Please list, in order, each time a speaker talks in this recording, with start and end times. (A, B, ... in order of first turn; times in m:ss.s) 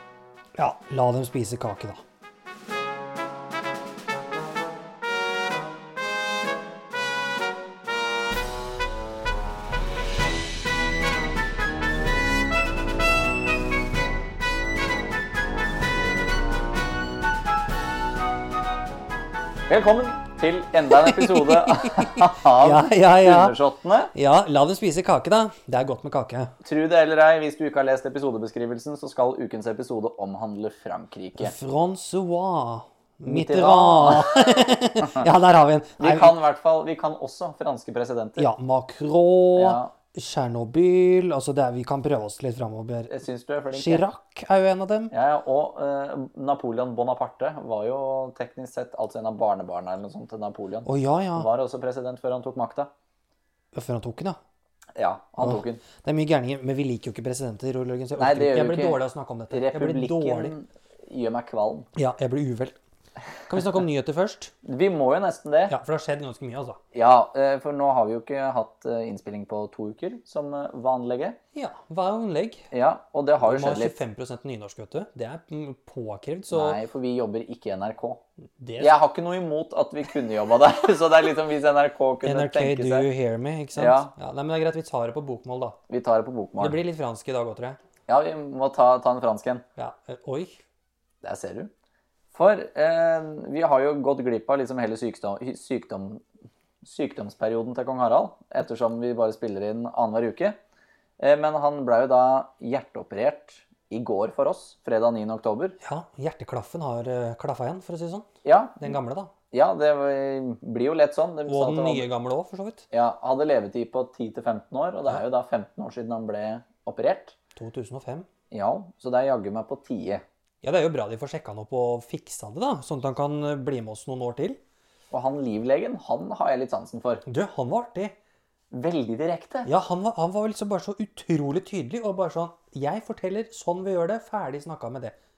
0:00.6-0:02.0 A
0:19.7-0:24.1 B
0:20.9-0:23.6 A
0:24.1-0:26.6 A
0:26.6-0:31.5 B
0:31.4-0:36.4 A
0:33.3-0:35.2 B
0:36.0-0:38.5 B
0:38.4-0:43.1 A
0:39.6-0:39.9 B
0:43.1-0:44.0 B
0:43.7-0:45.1 A
0:45.1-0:52.9 B
0:50.9-0:51.5 A
0:53.7-0:54.4 A
0:55.0-0:55.8 B
0:55.4-1:00.6 A
0:58.2-1:01.9 B
1:02.0-1:02.8 A
1:03.5-1:04.5 A
1:04.6-1:05.8 B
1:05.7-1:06.8 A
1:06.9-1:11.4 B
1:11.6-1:12.7 A
1:12.7-1:14.0 B
1:13.4-1:16.8 A
1:16.5-1:18.2 B
1:18.6-1:19.0 A
1:18.8-1:23.1 B
1:22.2-1:25.8 A
1:23.8-1:24.1 B
1:25.9-1:26.8 B
1:26.6-1:27.8 A
1:28.1-1:29.6 B
1:29.8-1:30.6 A
1:31.2-1:31.7 B
1:32.3-1:36.2 B
1:36.8-1:40.6 B
1:41.2-1:45.8 B
1:45.8-1:48.3 A
1:48.4-1:49.0 B
1:48.8-1:49.3 A
1:49.5-1:52.1 B
1:51.5-1:52.8 A
1:52.9-1:57.4 B
1:57.6-1:58.3 A
1:58.5-2:00.2 B
2:00.6-2:04.6 A
2:05.1-2:07.2 B
2:07.3-2:08.2 A
2:08.7-2:09.7 B
2:09.6-2:15.2 A